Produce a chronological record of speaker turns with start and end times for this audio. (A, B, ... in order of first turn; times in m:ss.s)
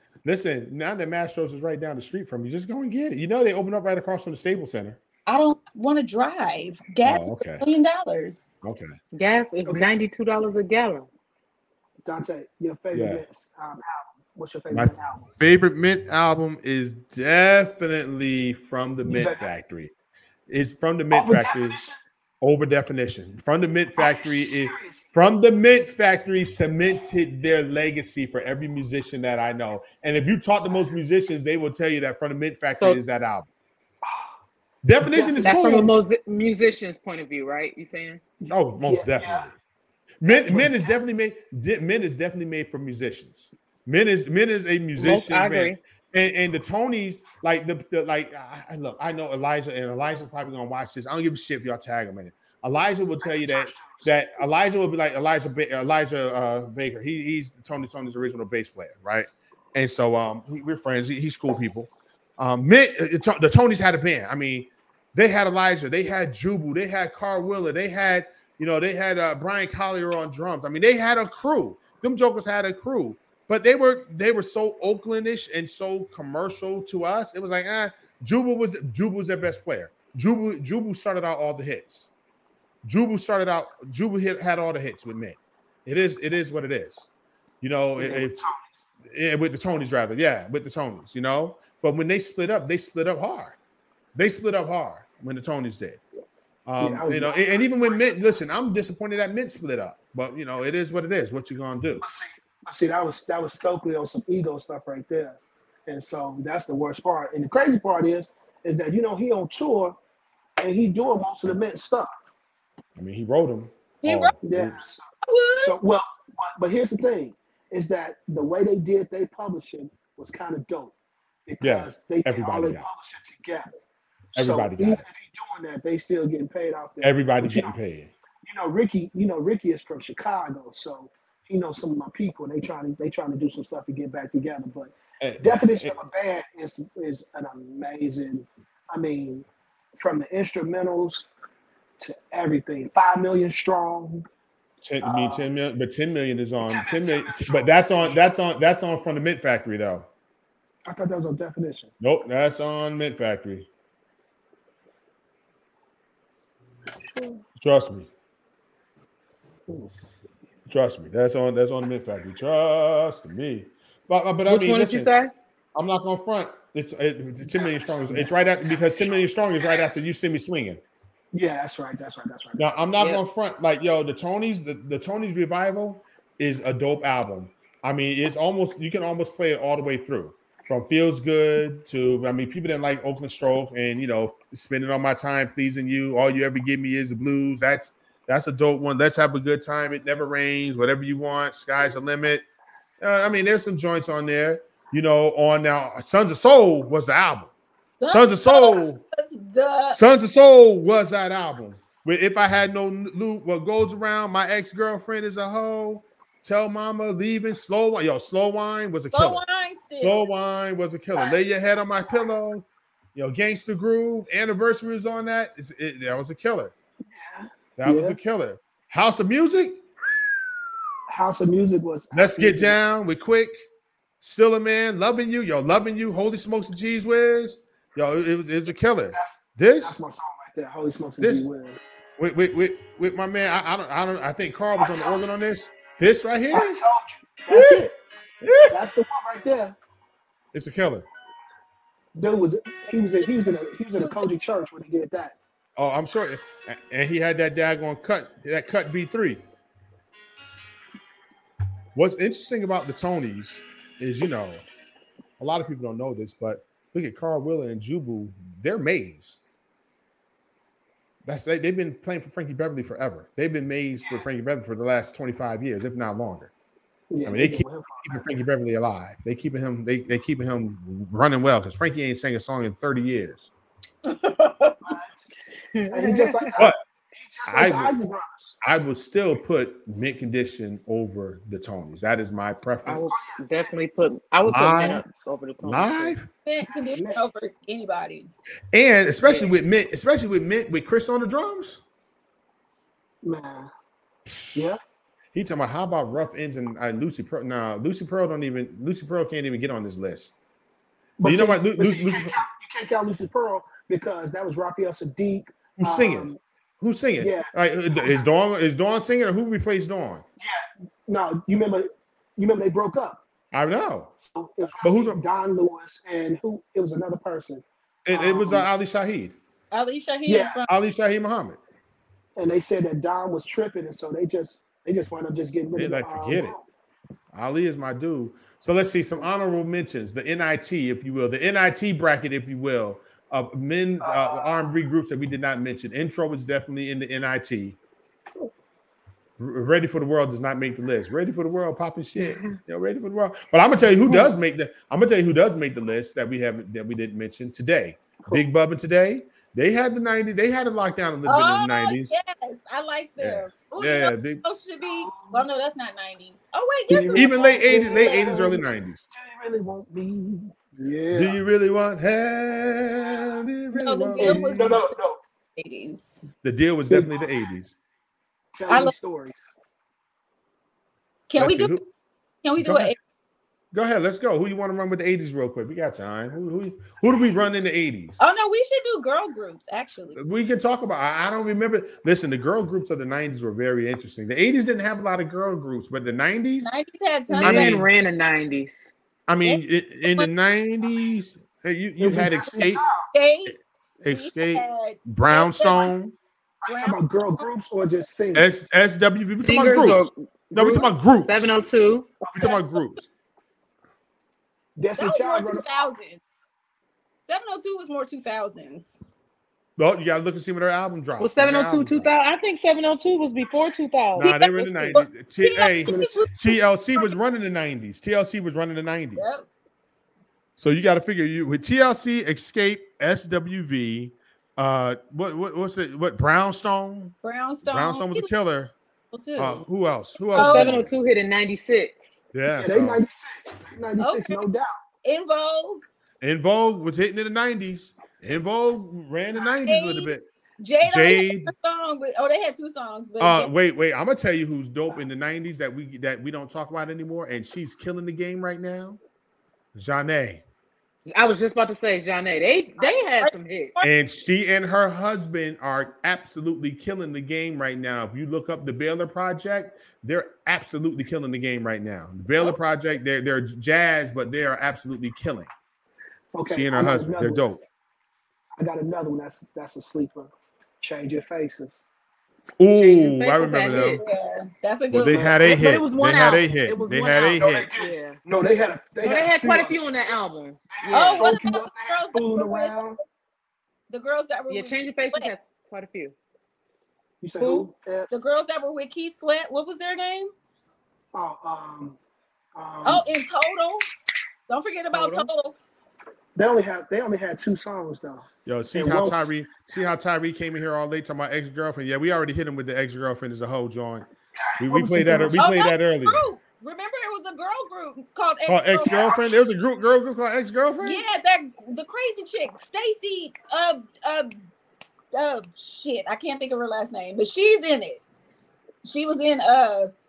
0:00.2-0:05.0 A
0:05.2-0:08.4 B
0:07.0-0:07.6 A
0:08.6-0:08.9 A
0:09.1-0:11.1 C
0:09.6-0:09.9 D
0:12.0-0:15.2 D
0:12.9-0:13.2 A
0:14.7-0:19.9 A
0:19.0-0:19.5 D
0:20.5-0:21.8 A
0:21.1-0:22.0 D
0:22.4-0:33.5 A
0:24.0-0:25.1 D
0:34.0-0:34.3 D
0:34.8-0:35.9 A
0:35.0-0:35.9 D
0:35.4-0:38.2 C
0:38.4-0:39.5 D
0:38.5-0:39.5 A
0:40.2-1:22.1 A
0:40.3-0:40.9 D
0:45.0-0:45.8 C
0:53.2-0:54.1 D
1:22.8-1:27.1 A
1:27.6-1:28.4 A
1:28.0-1:28.7 D
1:29.1-1:33.6 A
1:34.1-1:36.0 A
1:36.6-1:42.0 A
1:36.8-1:38.3 D
1:42.0-1:50.0 D
1:50.6-1:52.2 D
1:53.0-1:54.8 A
1:54.0-1:54.3 B
1:54.4-1:55.0 D
1:55.2-1:55.7 B
1:55.6-2:00.9 D
2:01.4-2:03.7 D
2:01.6-2:02.8 A
2:04.3-2:07.8 D
2:04.3-2:05.0 A
2:07.0-2:08.1 A
2:08.4-2:19.4 D
2:15.2-2:16.0 A
2:20.0-2:21.3 D
2:22.0-2:24.2 D
2:24.8-2:30.1 A
2:25.0-2:25.5 D
2:26.6-2:28.3 D
2:30.9-2:31.9 D
2:32.0-2:33.7 A
2:37.6-2:38.1 A
2:39.7-2:40.0 D
2:40.7-2:45.1 A
2:44.5-2:45.3 C
2:45.7-2:50.8 A
2:47.4-2:50.0 D
2:51.3-2:52.6 D
2:52.6-3:12.4 A
3:13.0-3:17.5 A
3:18.0-3:20.0 B
3:18.1-3:19.0 A
3:19.9-3:29.4 A
3:29.1-3:30.2 B
3:30.0-3:36.7 A
3:37.0-3:38.2 D
3:37.8-3:39.8 A
3:41.1-3:42.8 D
3:42.1-3:43.6 A
3:44.2-3:50.0 A
3:49.1-3:51.8 D
3:51.2-3:51.5 A
3:52.2-3:56.8 A
3:54.8-3:55.2 D
3:56.5-3:57.9 D
3:57.5-3:57.8 A
3:58.4-3:58.8 A
3:58.7-3:59.8 D
4:00.5-4:01.0 A
4:02.1-4:05.4 D
4:04.0-4:04.3 B
4:05.8-4:09.4 A
4:11.9-4:14.6 A
4:15.4-4:19.4 A
4:21.2-4:26.5 A
4:27.1-4:28.3 D
4:27.2-4:33.5 A
4:34.0-4:35.0 B
4:34.8-4:35.2 D
4:35.7-4:36.5 C
4:35.9-4:38.6 D
4:37.5-4:37.9 A
4:38.6-4:43.2 A
4:42.8-4:46.1 C
4:43.1-4:43.4 D
4:44.5-4:45.0 A
4:45.6-4:46.3 A
4:46.4-4:48.3 B
4:46.7-4:47.4 D
4:48.7-4:51.8 A
4:49.2-4:49.5 C
4:53.2-4:53.7 D
4:54.3-4:54.8 A
4:54.5-4:54.8 D
4:55.3-5:00.3 A
5:01.2-5:06.4 D
5:01.2-5:02.4 A
5:05.8-5:10.2 A
5:07.2-5:08.2 D
5:10.4-5:13.2 D
5:13.5-5:14.1 A
5:14.2-5:18.7 D
5:14.8-5:15.2 A
5:18.0-5:19.4 A
5:19.7-5:20.7 B
5:20.2-5:20.6 D
5:20.7-5:21.6 A
5:22.4-5:26.6 D
5:25.7-5:26.6 A
5:27.3-5:37.8 A
5:34.0-5:34.8 D
5:39.4-5:52.1 A
5:51.2-5:58.4 B
5:53.2-5:54.4 A
5:54.8-5:55.4 D
5:56.9-6:01.4 D
5:57.1-5:59.0 A
6:01.1-6:04.7 A
6:03.7-6:04.9 B
6:04.2-6:05.2 D
6:05.6-6:06.1 B
6:06.4-6:07.8 A
6:06.9-6:07.2 D
6:08.5-6:09.5 D
6:08.7-6:08.9 B
6:11.3-6:11.8 B
6:11.4-6:11.8 A
6:12.4-6:12.9 B
6:12.6-6:12.9 A
6:13.7-6:18.2 A
6:18.2-6:20.2 B
6:20.1-6:26.7 A
6:26.6-6:27.8 B
6:27.3-6:28.9 C
6:27.4-6:27.8 A
6:29.3-6:32.8 A
6:29.4-6:30.3 B
6:32.0-6:33.1 D
6:33.1-6:33.5 B
6:34.0-6:36.1 A
6:34.1-6:35.9 B
6:36.6-6:38.5 D
6:36.7-6:37.4 B
6:38.3-6:41.5 A
6:39.4-6:42.1 C
6:42.2-6:42.6 D
6:42.3-6:43.1 A
6:44.8-6:45.9 D
6:45.0-6:46.2 B
6:47.3-6:49.0 B
6:49.8-6:52.1 A
6:51.2-6:54.3 C
6:54.2-6:59.4 A
6:54.2-6:57.2 B
6:55.8-6:56.3 D
6:59.2-6:59.4 B
7:00.6-7:07.1 A
7:07.2-7:08.3 B
7:07.6-7:08.7 A
7:09.1-7:09.6 B
7:09.4-7:10.9 A
7:10.3-7:10.7 B
7:10.3-7:12.1 C
7:12.3-7:13.0 A
7:12.5-7:14.7 D
7:14.0-7:14.4 B
7:15.0-7:15.8 B
7:16.2-7:20.2 A
7:19.6-7:23.5 B
7:20.8-7:21.5 A
7:23.2-7:29.0 A
7:29.7-7:30.4 A
7:31.1-7:33.8 C
7:32.8-7:33.9 B
7:33.8-7:45.5 A
7:46.3-7:47.6 D
7:46.5-7:47.6 A
7:48.6-7:51.8 D
7:52.6-7:54.0 A
7:52.7-7:54.0 C
7:53.6-7:55.4 B
7:54.9-7:57.7 A
7:55.1-7:55.5 D
7:55.4-7:58.2 C
7:56.7-7:59.8 D
7:59.0-8:01.4 C
8:00.7-8:03.0 D
8:00.9-8:02.9 B
8:03.9-8:05.3 B
8:04.5-8:06.1 C
8:07.2-8:08.1 D
8:08.1-8:10.3 B
8:11.1-8:12.0 D
8:12.6-8:13.0 D
8:12.8-8:13.8 B
8:14.5-8:15.6 B
8:14.9-8:15.3 C
8:16.4-8:19.3 D
8:18.4-8:24.0 A
8:24.4-8:25.4 D
8:24.6-8:26.2 A
8:25.3-8:29.2 B
8:28.4-8:31.0 A
8:28.8-8:29.4 D
8:30.8-8:34.3 B
8:35.1-8:38.0 B
8:38.8-8:39.9 B